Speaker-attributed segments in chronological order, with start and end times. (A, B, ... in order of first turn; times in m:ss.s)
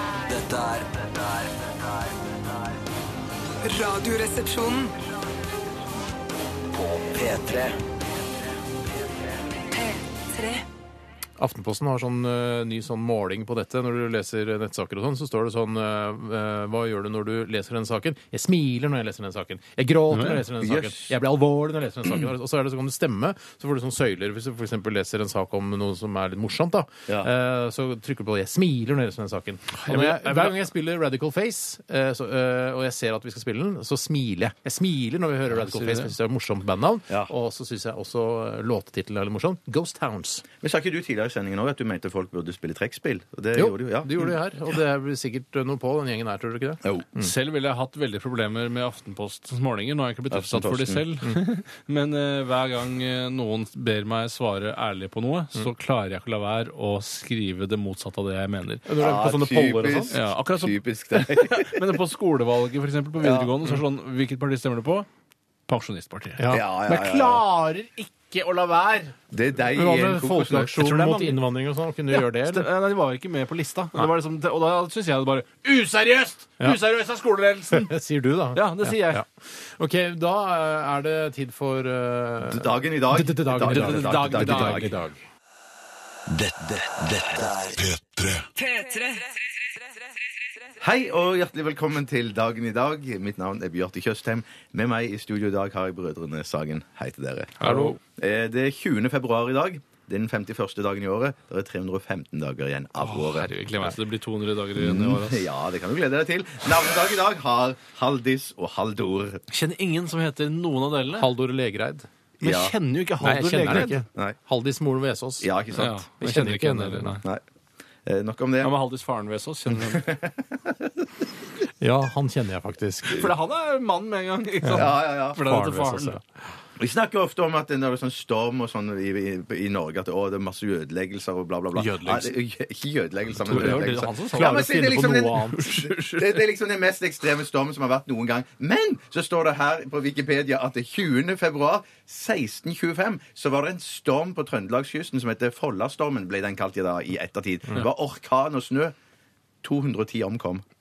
0:00.2-0:02.8 A
0:03.6-0:04.9 B
0:06.7-0:07.9 A
0:08.9-0:09.4 A
0:09.7-0:10.6 B
0:11.4-0:40.4 C
0:20.1-0:20.4 D
0:20.6-0:21.1 E
0:29.7-0:30.6 D
0:35.7-0:36.1 D
0:40.6-0:44.3 E
0:43.5-0:47.3 C
0:47.2-0:58.9 D
0:50.3-0:51.0 E
0:58.9-1:00.1 C
0:59.0-1:01.8 E
1:00.1-1:05.1 D
1:03.2-1:03.5 E
1:05.7-1:06.5 D
1:06.4-1:09.1 C
1:06.5-1:07.4 E
1:09.3-1:11.1 E
1:09.7-1:12.7 C
1:10.8-1:11.4 D
1:12.1-1:17.9 D
1:17.7-1:25.2 C
1:18.5-1:19.2 D
1:22.5-1:24.9 E
1:23.6-1:24.9 D
1:26.3-1:29.2 A
1:30.8-1:43.5 E
1:37.6-1:38.0 D
1:37.6-1:37.9 C
1:43.0-1:45.5 D
1:44.8-1:49.4 E
1:49.5-1:51.3 D
1:51.2-1:52.1 C
1:52.4-1:54.0 D
1:52.4-1:52.7 E
1:53.2-1:55.5 C
1:55.4-1:56.0 E
1:55.7-1:57.2 D
1:56.2-1:57.2 C
1:58.0-1:58.7 E
1:58.6-2:00.1 D
1:59.7-2:00.7 E
2:01.8-2:03.3 C
2:03.1-2:06.2 D
2:04.6-2:06.2 C
2:04.7-2:05.4 E
2:06.8-2:28.9 E
2:11.7-2:12.3 D
2:13.4-2:16.4 D
2:13.5-2:15.5 C
2:29.6-2:30.6 E